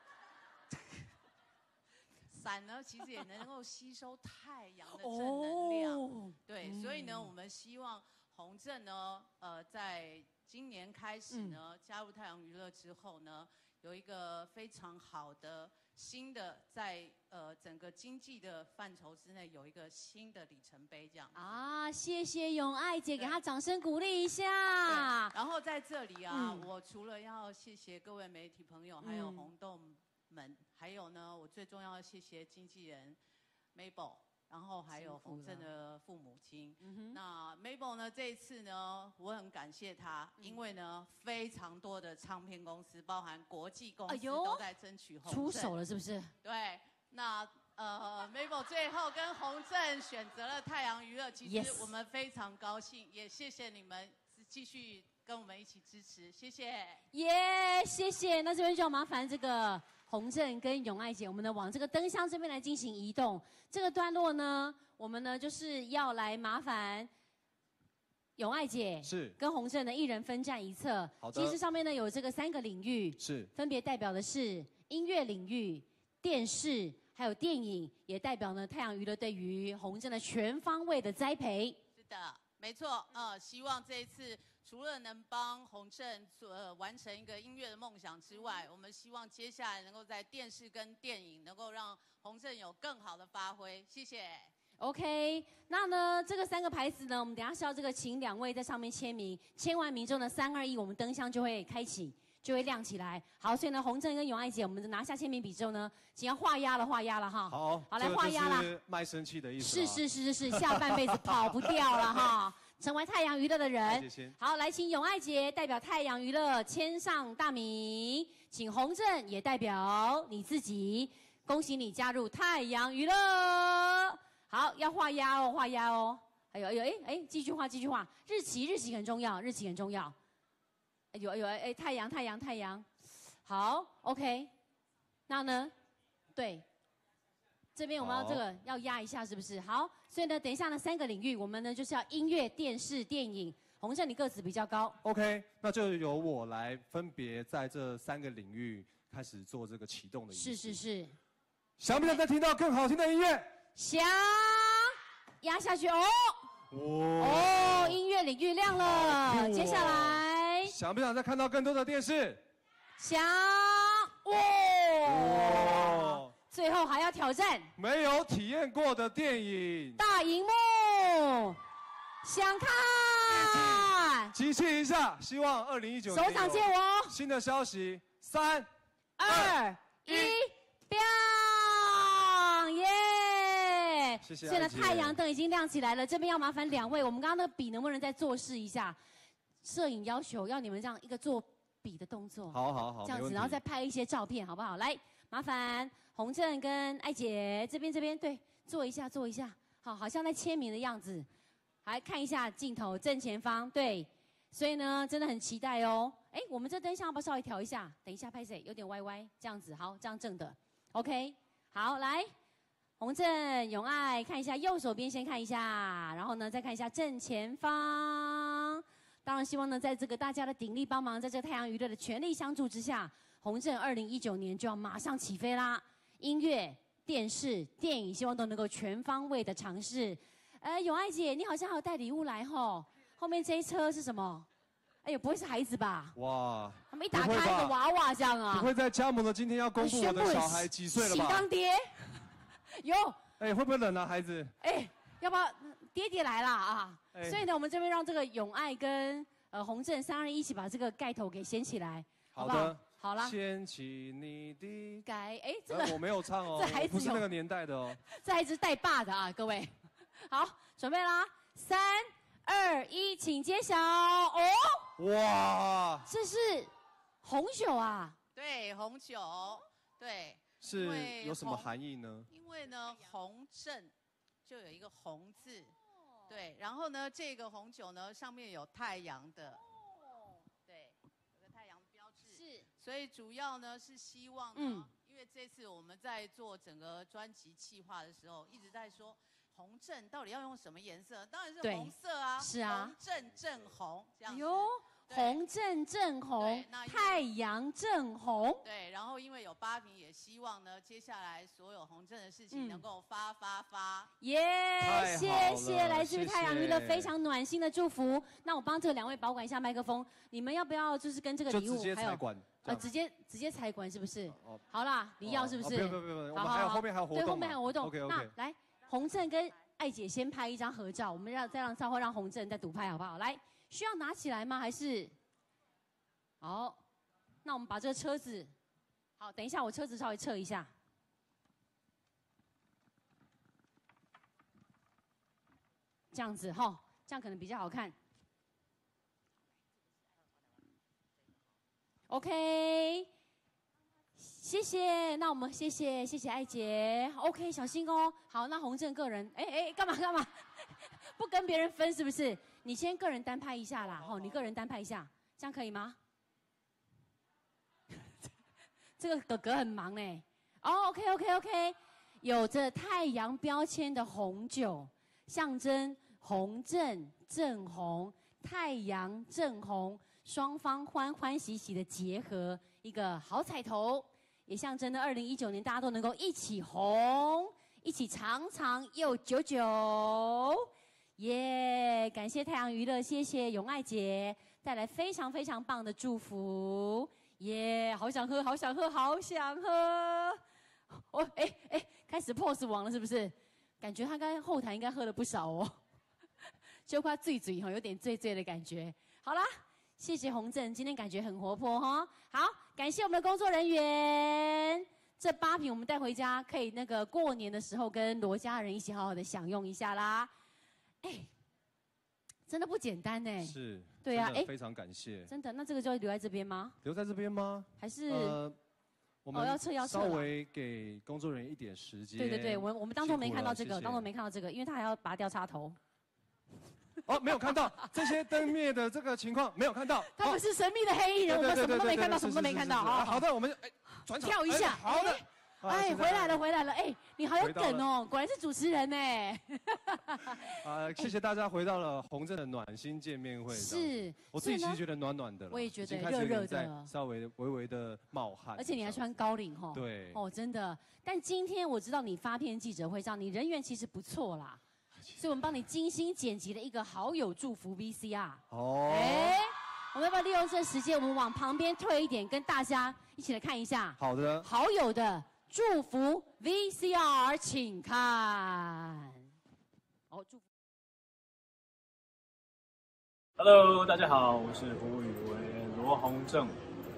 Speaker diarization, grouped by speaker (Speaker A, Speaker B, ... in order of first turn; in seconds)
Speaker A: 2.3-21.4, 24.9-33.2, 33.8-45.8, 46.4-57.0, 82.0-94.5, 268.4-271.7, 272.3-273.9, 274.4-275.7, 276.3-279.6, 280.7-295.4, 296.4-297.2, 298.6-304.1
Speaker B: 5.0-7.3, 11.3-11.6, 21.4-25.3, 26.3-26.7, 29.0-29.5, 34.9-35.7, 36.8-37.2, 44.1-44.6, 45.2-46.3, 51.5-51.9, 57.1-67.1, 68.4-81.8, 94.8-108.7, 109.6-130.2, 131.1-132.9, 133.4-134.5, 135.3-135.7, 136.3-136.7, 137.8-145.0, 150.3-151.2, 153.8-156.4, 157.2-160.8, 163.0-167.7, 170.0-171.6, 172.2-174.3, 176.1-177.2, 179.2-189.0, 189.6-201.3, 201.8-212.3, 213.0-234.5, 235.0-236.2, 236.9-238.7, 239.8-242.2, 242.7-243.2, 244.6-253.3, 255.1-257.2, 258.1-259.7, 260.3-264.9, 266.1-266.7, 267.2-268.2, 282.2-282.7, 284.6-284.9, 291.6-292.9, 294.3-298.6, 302.5-302.8, 304.2-325.1, 326.4-326.8, 327.4-328.5, 329.2-330.7, 336.1-337.9, 342.1-343.1, 344.2-356.0, 359.0-395.8, 396.9-410.3, 411.0-411.3, 412.5-414.5, 415.3-416.8, 417.8-418.4, 419.3-420.3, 422.2-425.8, 430.2-433.2, 434.2-441.1, 443.5-444.8, 445.5-446.9, 448.6-454.6, 455.2-469.2, 470.1-470.4
Speaker C: 69.0-69.4, 71.2-71.6, 73.2-73.5, 107.5-112.3, 113.8-114.4, 138.0-138.4, 145.0-150.8, 151.8-153.6, 156.7-158.0, 158.7-162.4, 165.0-166.3, 167.8-170.0, 173.3-178.7, 179.2-180.4, 184.2-185.2, 192.5-193.6, 236.2-237.8, 238.5-241.5, 243.4-244.5, 247.1-247.4, 252.3-255.1, 255.7-258.0, 265.0-266.1, 270.6-272.3, 304.8-307.1, 311.5-312.9, 314.3-314.6, 315.2-318.3, 353.8-354.5, 413.4-415.3, 416.8-418.6, 419.2-424.1, 427.1-430.4, 431.3-436.4, 437.4-437.9, 440.4-449.2, 449.7-450.2, 458.5-459.4, 464.0-464.5
Speaker D: 473.4-476.5